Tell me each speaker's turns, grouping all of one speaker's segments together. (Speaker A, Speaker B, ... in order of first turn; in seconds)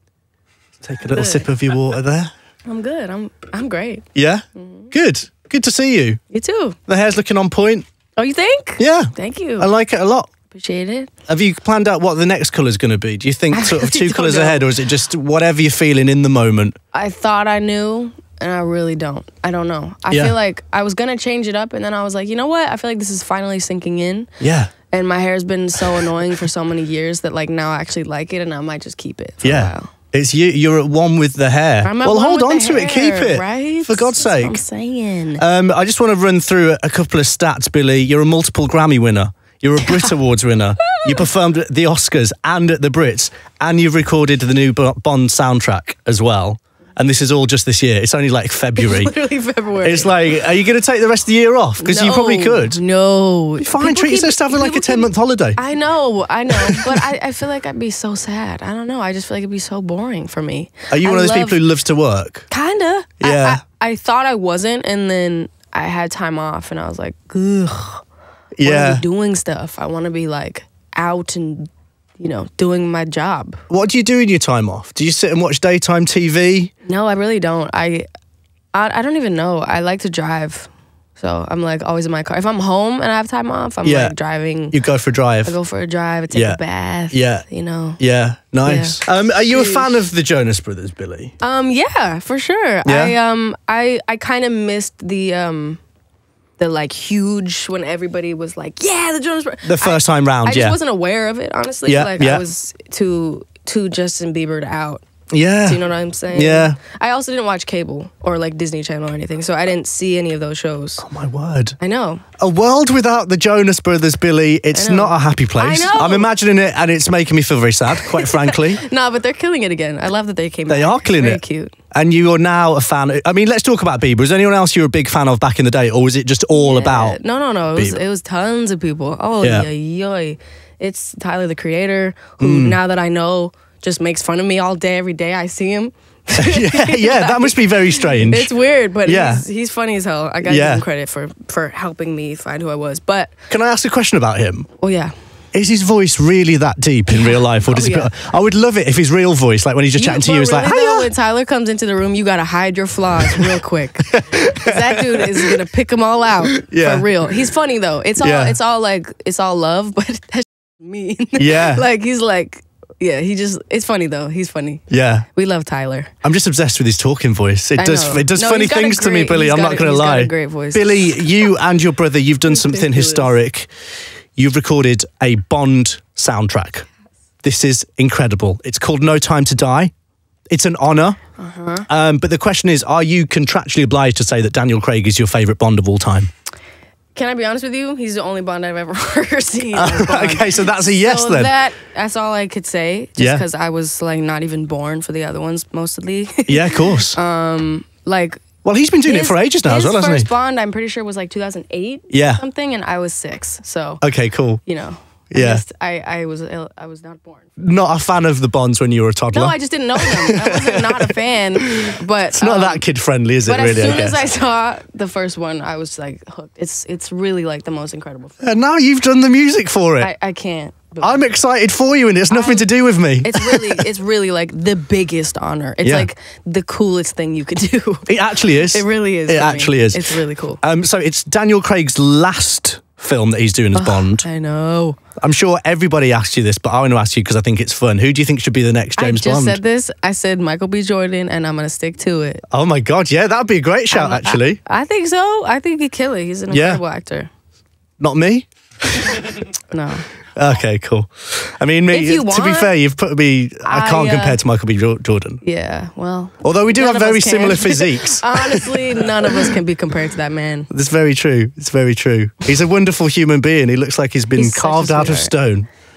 Speaker A: 0.8-2.3, 4.2-6.2, 6.9-7.9, 8.8-10.3, 11.3-16.8, 24.4-24.7, 29.4-34.6, 35.4-49.1, 49.8-52.8, 53.6-55.6, 56.6-56.9, 60.9-62.5, 63.2-63.6, 68.6-69.0, 73.7-76.7, 83.8-84.2, 84.7-85.6, 86.3-87.5, 88.0-91.3, 92.8-93.2, 99.6-100.8, 101.9-102.5, 105.3-106.8, 111.0-111.8, 112.4-118.8, 120.7-127.2, 127.8-128.0, 129.4-129.7, 132.4-132.8, 136.4-138.5, 139.0-139.4, 140.4-140.8, 143.5-144.7, 145.5-151.1, 154.1-155.5, 156.6-157.1, 158.2-158.6, 161.4-161.8, 164.9-165.3, 166.2-173.7, 174.4-176.9, 177.4-179.9, 180.5-181.2, 181.9-186.3, 189.7-191.6, 193.2-193.4, 196.5-197.2, 198.6-200.3, 202.1-202.4, 204.0-204.6, 205.3-205.6, 207.6-214.2, 218.4-220.1, 221.0-223.8, 225.8-226.1, 228.1-234.3, 235.2-239.6, 242.5-244.6, 246.5-246.8, 248.0-248.5, 250.3-255.4, 256.4-259.1, 260.7-265.7
Speaker B: 1.1-1.5, 2.7-4.9, 6.3-6.8, 8.2-9.7, 10.5-11.1, 13.5-14.7, 16.9-24.3, 24.9-29.9, 31.8-35.4, 39.8-40.2, 40.9-41.3, 48.8-50.1, 51.8-61.6, 62.5-68.0, 68.6-73.6, 76.9-78.1, 78.7-84.8, 85.5-88.0, 88.6-90.1, 91.4-95.8, 96.6-105.0, 105.6-111.0, 111.8-112.3, 114.7-116.3, 118.0-121.8, 126.5-143.3, 144.8-145.2, 147.1-148.1, 150.0-166.1, 167.8-171.1, 172.5-173.4, 181.4-181.9, 187.2-198.4, 199.0-204.0, 204.7-207.5, 209.3-212.8, 213.5-218.4, 220.0-221.3, 222.3-230.6, 233.7-235.0, 239.0-242.4, 243.9-247.3, 249.7-250.1, 251.9-252.8, 253.6-254.4, 255.4-260.7, 264.4-265.3